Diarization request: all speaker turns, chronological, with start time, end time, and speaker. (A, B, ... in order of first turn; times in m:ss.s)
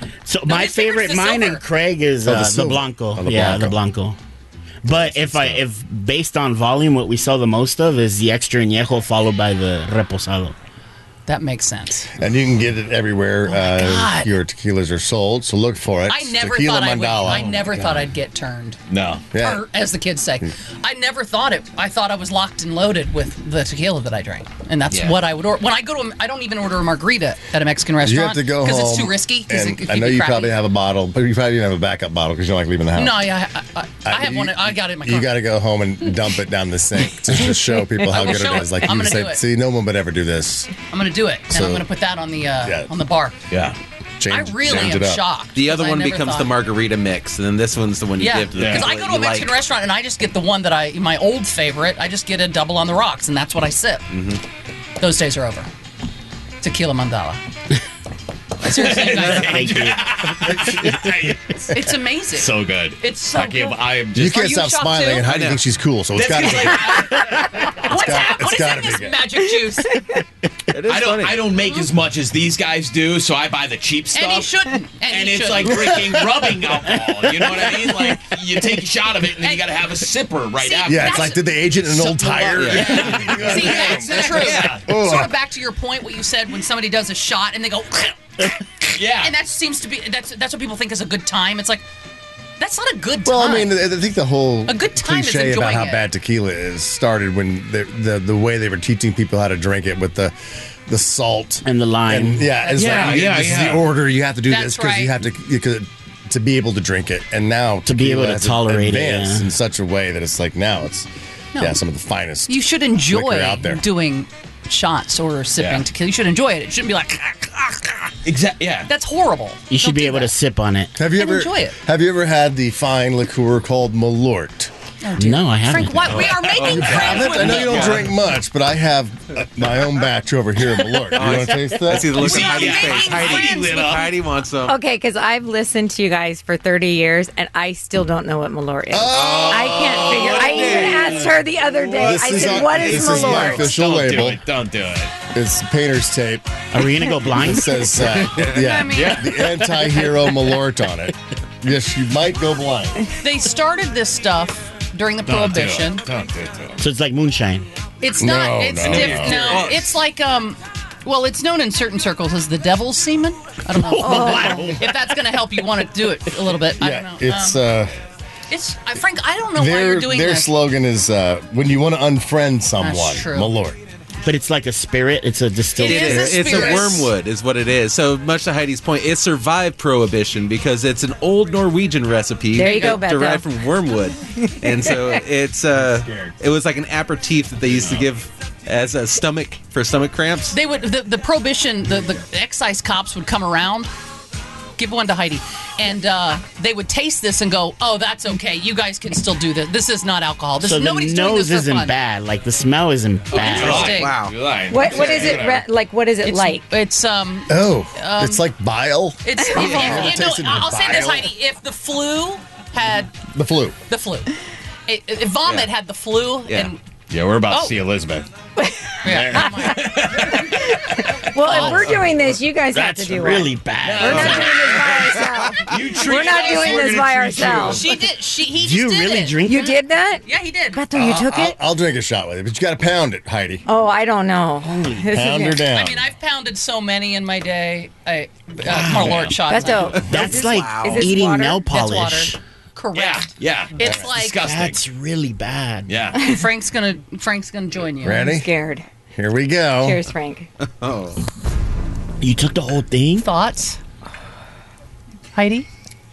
0:00.2-0:04.2 A
0:00.5-0:01.6 B
0:02.2-0:03.8 C
0:04.8-0:10.5 A
0:04.8-0:05.6 C
0:11.2-0:12.1 B
0:12.2-0:17.6 C
0:13.5-0:14.3 B
0:16.1-0:18.8 B
0:17.4-0:17.9 D
0:18.9-0:19.2 D
0:19.3-0:19.6 C
0:19.3-0:30.6 B
0:28.0-0:33.3 C
0:32.9-0:35.3 B
0:34.0-0:40.7 C
0:38.1-0:39.4 B
0:40.9-0:43.4 B
0:41.5-0:41.8 C
0:42.6-0:42.9 C
0:43.5-0:43.8 D
0:44.2-0:45.2 C
0:44.3-0:46.5 B
0:45.5-0:49.6 E
0:48.2-0:54.0 B
0:48.5-0:48.9 D
0:54.1-0:54.4 E
0:55.0-0:55.7 B
0:56.6-0:57.4 B
0:58.6-0:59.8 B
0:58.6-1:01.5 D
0:59.4-1:00.1 A
1:01.7-1:05.3 B
1:02.3-1:04.3 D
1:04.1-1:07.1 C
1:05.2-1:05.6 E
1:06.1-1:07.4 D
1:07.8-1:10.0 B
1:07.8-1:09.3 C
1:10.7-1:11.6 E
1:10.9-1:14.5 D
1:14.1-1:16.1 B
1:15.1-1:21.3 D
1:19.4-1:19.7 B
1:20.6-1:31.8 B
1:20.8-1:25.3 C
1:22.6-1:23.0 E
1:22.7-1:24.9 D
1:28.9-1:29.3 D
1:32.6-1:33.7 B
1:33.2-1:40.3 C
1:34.7-1:36.0 B
1:40.9-1:53.8 C
1:41.6-1:42.5 A
1:42.6-1:43.3 B
1:42.7-1:43.9 D
1:44.5-1:45.1 B
1:47.8-1:49.5 A
1:52.5-1:58.1 B
1:55.6-1:55.8 D
1:58.2-1:58.9 D
1:58.9-2:00.3 B
1:59.7-2:00.9 A
2:01.0-2:04.7 C
2:01.1-2:01.8 B
2:05.0-2:08.0 B
2:05.2-2:06.3 A
2:06.1-2:07.1 D
2:06.6-2:08.1 E
2:06.6-2:12.3 C
2:11.1-2:14.8 E
2:12.1-2:13.8 B
2:12.2-2:14.2 D
2:14.6-2:23.8 F
2:18.9-2:20.7 C
2:19.1-2:21.4 E
2:21.9-2:24.4 C
2:22.6-2:22.9 E
2:22.9-2:25.1 D
2:25.3-2:26.5 C
2:26.7-2:27.9 A
2:27.3-2:33.0 C
2:28.0-2:29.9 D
2:28.4-2:29.3 B
2:33.2-2:36.0 B
2:35.2-2:36.8 D
2:36.8-2:37.6 A
2:38.0-2:47.6 B
2:38.2-2:39.7 C
2:38.8-2:39.9 E
2:38.9-2:39.4 D
2:43.9-2:44.8 F
2:46.8-2:47.9 C
2:48.5-2:50.5 B
2:49.6-2:53.8 C
2:52.8-2:53.5 B
2:54.2-2:56.6 A
2:55.8-2:57.1 B
2:55.8-3:10.6 E
3:02.5-3:03.5 F
3:02.6-3:03.0 B
3:04.6-3:05.2 F
3:10.5-3:13.9 B
3:14.8-3:21.9 B
3:20.6-3:23.9 A
3:23.3-3:24.2 B
3:23.4-3:24.4 E
3:23.4-3:25.6 D
3:24.7-3:26.6 F
3:26.2-3:28.4 B
3:27.5-3:31.3 C
3:29.2-3:33.1 B
3:29.4-3:30.0 F
3:33.3-3:33.8 C
3:33.9-3:34.3 B
3:34.9-3:36.8 B
3:36.5-3:36.7 E
3:37.1-3:38.3 D
3:37.5-3:37.8 B
3:38.6-3:38.9 F
3:39.0-3:40.4 B
3:39.0-3:40.4 D
3:39.4-3:47.9 F
3:41.4-3:41.9 B
3:41.4-3:42.0 D
3:42.7-3:44.5 A
3:43.8-3:45.1 D
3:44.1-3:44.9 E
3:45.6-3:47.8 D
3:46.1-3:46.7 B
3:47.6-3:49.7 B
3:48.6-3:49.7 A
3:49.4-3:51.6 F
3:50.2-3:50.8 B
3:50.9-3:53.6 C
3:53.6-3:55.7 F
3:54.7-3:55.0 A
3:55.1-3:56.0 C
3:55.7-4:00.0 B
3:58.7-3:59.3 A
3:58.7-3:59.4 D
3:59.4-4:01.6 F
3:59.9-4:01.1 E
4:00.0-4:02.4 A
4:01.5-4:04.4 B
4:02.9-4:04.8 D
4:04.4-4:05.9 A
4:05.9-4:06.3 D
4:06.2-4:08.2 B
4:08.0-4:08.5 C
4:08.1-4:08.8 F
4:09.1-4:10.0 C
4:09.8-4:10.5 F
4:10.6-4:11.2 E
4:12.2-4:13.3 A
4:13.2-4:13.8 B
4:15.3-4:15.7 B